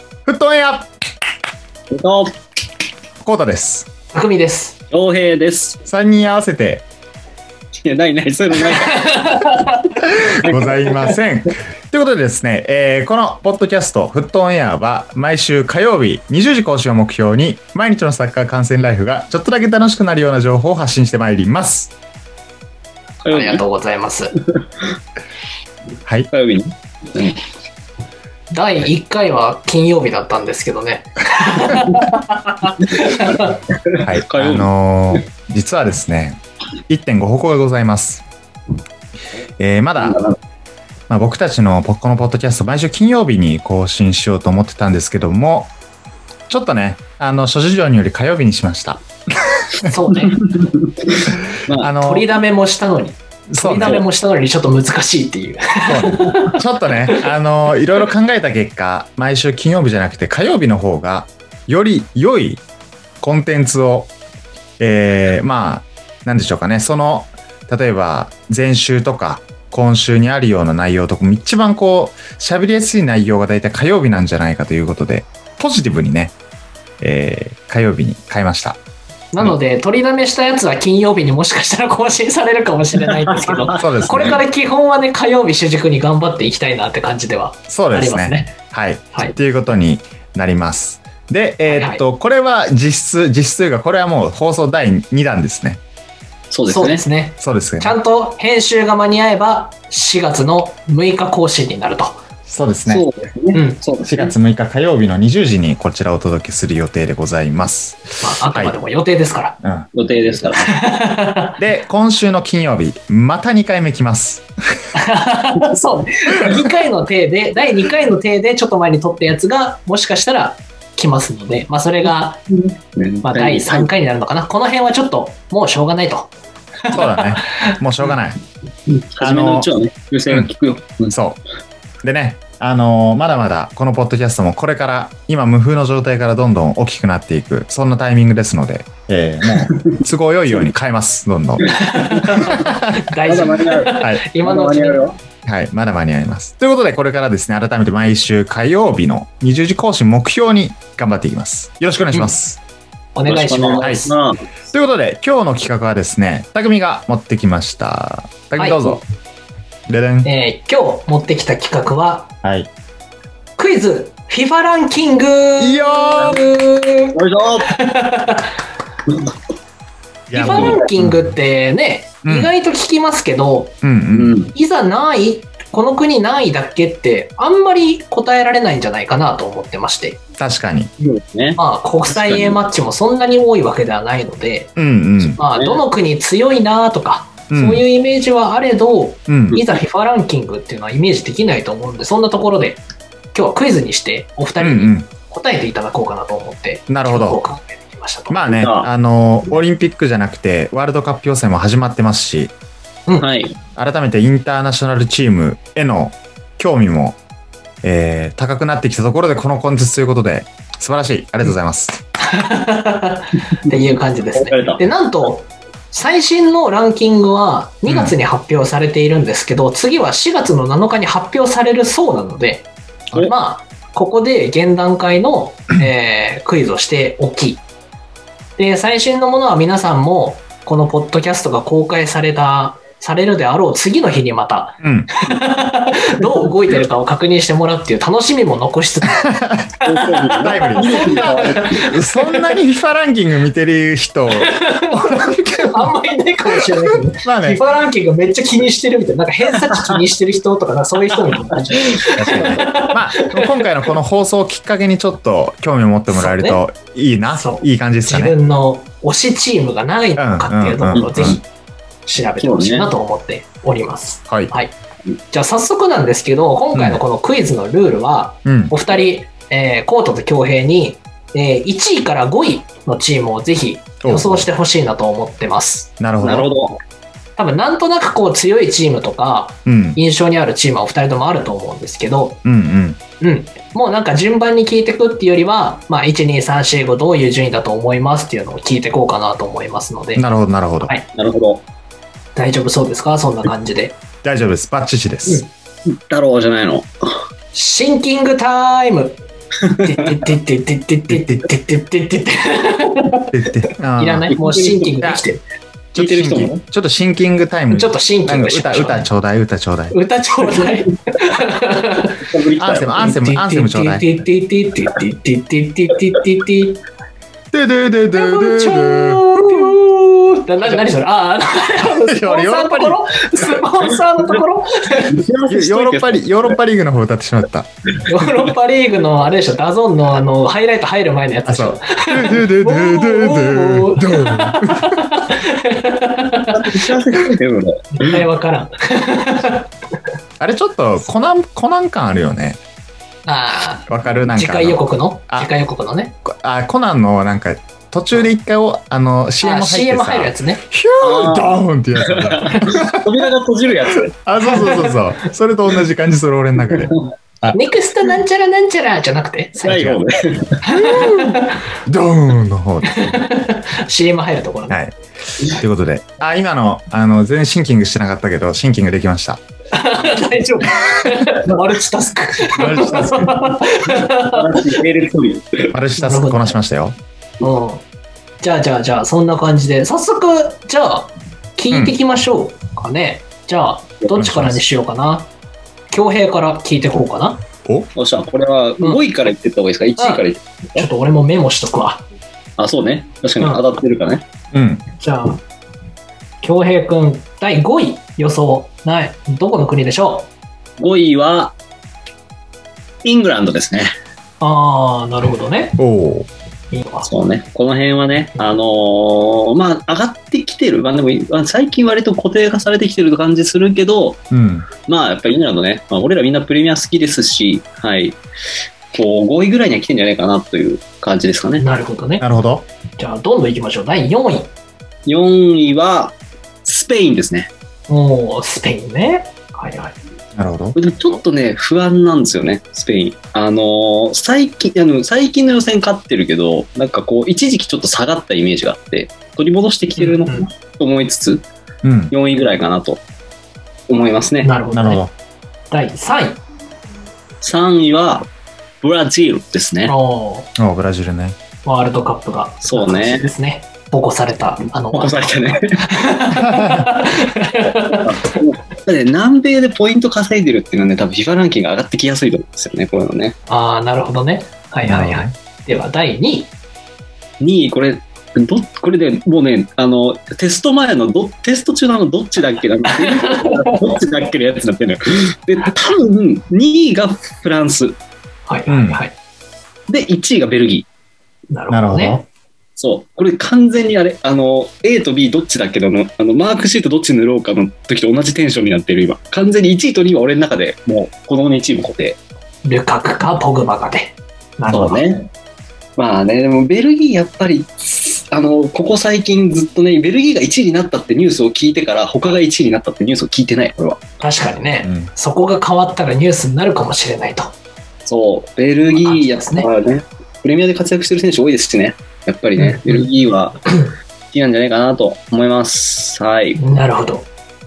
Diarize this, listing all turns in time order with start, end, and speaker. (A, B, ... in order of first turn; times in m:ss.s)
0:00.2-0:00.9 A
0:01.9-0:02.3 B
0:03.2-0:03.9 A
0:04.1-0:04.8 C
0:04.9-0:05.8 B
0:05.9-0:06.8 A
0:07.8-0:09.5 B
0:08.6-0:09.9 C
0:10.0-0:21.9 A
0:10.2-0:11.1 B
0:23.2-0:23.6 B
0:23.3-0:24.4 C
0:26.3-0:27.4 B
0:28.5-0:33.6 C
0:32.9-0:35.2 B
0:34.0-0:38.2 A
0:39.6-0:40.2 A
0:40.0-0:40.4 B
0:41.1-0:45.7 A
0:46.5-0:49.9 A
0:49.8-0:50.4 C
0:50.3-0:51.9 B
0:51.8-0:52.3 A
0:51.9-0:56.5 C
0:53.5-0:54.0 A
0:55.9-1:02.6 A
1:03.2-1:04.1 A
1:04.8-1:16.3 A
1:17.0-1:18.8 A
1:19.3-1:28.5 C
1:23.1-1:23.9 B
1:23.8-1:24.4 A
1:27.7-1:35.8 A
1:31.7-1:32.0 C
1:36.5-1:37.0 B
1:36.7-1:42.2 C
1:37.4-1:38.0 A
1:42.5-1:43.0 A
1:42.9-1:44.3 B
1:43.5-1:43.8 C
1:44.0-1:48.8 A
1:48.2-1:49.6 C
1:49.6-1:50.4 A
1:49.9-1:50.7 B
1:50.6-1:51.6 C
1:51.6-1:54.5 A
1:54.9-2:02.4 C
2:02.5-2:03.9 B
2:03.2-2:06.3 C
2:06.9-2:07.7 C
2:06.9-2:08.4 A
2:08.9-2:11.1 B
2:09.2-2:09.7 A
2:11.1-2:11.4 A
2:12.0-2:21.7 A
2:19.6-2:20.0 B
2:21.7-2:25.0 C
2:21.7-2:22.7 B
2:22.5-2:23.0 A
2:23.2-2:25.2 B
2:25.4-2:32.6 A
2:33.1-2:34.1 C
2:33.2-2:34.4 B
2:33.8-2:34.1 A
2:34.7-2:39.0 A
2:38.6-2:39.0 C
2:39.9-2:40.3 A
2:40.2-2:42.3 C
2:42.4-2:42.7 A
2:43.6-2:47.2 C
2:45.6-2:46.4 A
2:47.1-2:47.7 B
2:47.7-2:48.5 C
2:50.3-2:51.3 A
2:50.3-2:53.8 C
2:50.4-2:50.8 B
2:52.2-2:52.5 A
2:53.8-2:54.4 A
2:54.1-2:54.5 B
2:54.5-3:00.2 C
3:00.4-3:00.9 A
3:01.0-3:02.6 B
3:01.6-3:12.8 C
3:04.8-3:05.4 A
3:05.6-3:05.8 B
3:07.5-3:07.8 A
3:09.3-3:09.6 A
3:13.3-3:18.5 C
3:14.6-3:15.1 A
3:16.9-3:17.4 A
3:18.3-3:22.5 A
3:18.5-3:18.9 B
3:23.2-3:23.6 B
3:23.8-3:27.2 A
3:27.8-3:32.0 A
3:32.3-3:47.6 C
3:33.7-3:34.8 B
3:37.9-3:38.1 A
3:48.6-3:59.3 C
3:54.8-3:55.1 A
3:59.1-3:59.7 A
3:59.8-4:01.8 B
3:59.9-4:02.6 C
4:00.4-4:05.9 A
4:04.4-4:13.6 C
4:06.6-4:07.6 A
4:12.1-4:18.4 A
4:16.1-4:16.6 C
4:17.3-4:21.4 C
4:20.2-4:21.4 A
4:20.9-4:21.4 B
4:22.0-4:24.7 C
4:22.4-4:22.9 B
4:25.3-4:35.9 C
4:28.4-4:28.7 A
4:34.0-4:34.5 A
4:36.0-4:36.5 A
4:36.2-4:36.8 B
4:37.4-4:42.4 C
4:39.6-4:40.0 A
4:42.4-4:43.0 A
4:43.2-4:50.2 C
4:50.2-4:50.9 A
4:50.8-4:51.0 C
4:51.1-4:51.6 B
4:52.4-4:54.0 C
4:54.2-4:55.4 A
4:55.9-4:56.9 B
4:57.5-5:03.3 C
5:01.1-5:01.4 A
5:03.3-5:04.4 A
5:04.0-5:05.4 C
5:04.4-5:04.9 B
5:05.9-5:10.0 A
5:05.9-5:06.6 B
5:07.7-5:09.0 C
5:09.9-5:12.2 C
5:12.2-5:13.2 B
5:12.6-5:14.1 A
5:13.0-5:16.8 C
5:17.5-5:19.7 A
5:18.1-5:25.2 C
5:22.1-5:23.0 A
5:25.1-5:26.6 B
5:25.5-5:27.7 A
5:28.0-5:36.8 C
5:31.5-5:35.2 A
5:36.5-5:38.2 B
5:37.9-5:39.7 C
5:40.4-5:42.6 A
5:43.2-5:46.1 C
5:43.9-5:45.5 A
5:46.2-5:53.0 A
5:49.4-5:50.6 C
5:51.0-5:54.1 B
5:53.9-5:57.6 A
5:54.4-5:55.0 C
5:56.7-5:57.1 B
5:57.5-6:00.0 C
5:59.6-6:00.6 B
6:00.6-6:01.6 C
6:00.6-6:03.2 A
6:02.9-6:04.8 C
6:04.7-6:09.4 A
6:09.7-6:14.6 C
6:10.9-6:11.2 A
6:12.5-6:13.4 A
6:14.0-6:15.7 B
6:15.7-6:16.9 A
6:16.0-6:16.5 C
6:17.4-6:17.8 C
6:18.4-6:25.3 C
6:24.1-6:24.6 A
6:25.9-6:27.4 C
6:28.0-6:30.9 B
6:30.0-6:32.0 C
6:32.6-6:34.2 B
6:34.5-6:34.8 A
6:35.0-6:35.4 C
6:36.4-6:40.3 C
6:40.8-6:41.5 B
6:43.0-6:43.9 B
6:44.4-6:45.8 C
6:45.8-6:46.3 A
6:46.7-6:47.1 C
6:47.0-6:54.2 B
6:54.3-6:54.7 A
6:54.8-6:58.2 B
6:58.9-7:01.6 B
7:01.6-7:02.2 C
7:02.2-7:02.6 A
7:03.0-7:04.5 C
7:05.0-7:07.5 B
7:07.9-7:10.0 C
7:10.3-7:10.8 A
7:10.8-7:21.5 B
7:20.0-7:20.4 C
7:21.8-7:22.1 A
7:22.1-7:23.0 B
7:23.9-7:24.5 B
7:24.4-7:25.0 C
7:24.7-7:25.1 A
7:25.7-7:26.4 C
7:27.4-7:28.3 B
7:28.8-7:29.9 B
7:29.9-7:30.5 C
7:30.6-7:31.4 A
7:31.6-7:38.1 C
7:32.6-7:33.3 B
7:34.9-7:35.8 B
7:36.4-7:36.9 A
7:37.9-7:43.4 B
7:43.5-7:46.5 C
7:44.8-7:45.3 A
7:47.4-7:58.0 B
7:52.9-7:53.9 C
7:58.5-7:59.1 C
7:58.7-7:59.0 A
7:59.9-8:00.9 B
8:01.5-8:02.2 C
8:01.7-8:02.2 A
8:02.8-8:12.2 B
8:12.6-8:15.0 C
8:14.7-8:15.3 B
8:16.0-8:24.0 B
8:24.2-8:27.5 C
8:24.8-8:25.1 A
8:28.0-8:33.6 B
8:28.9-8:29.7 C
8:32.6-8:33.0 C
8:34.3-8:36.6 B
8:36.6-8:37.3 C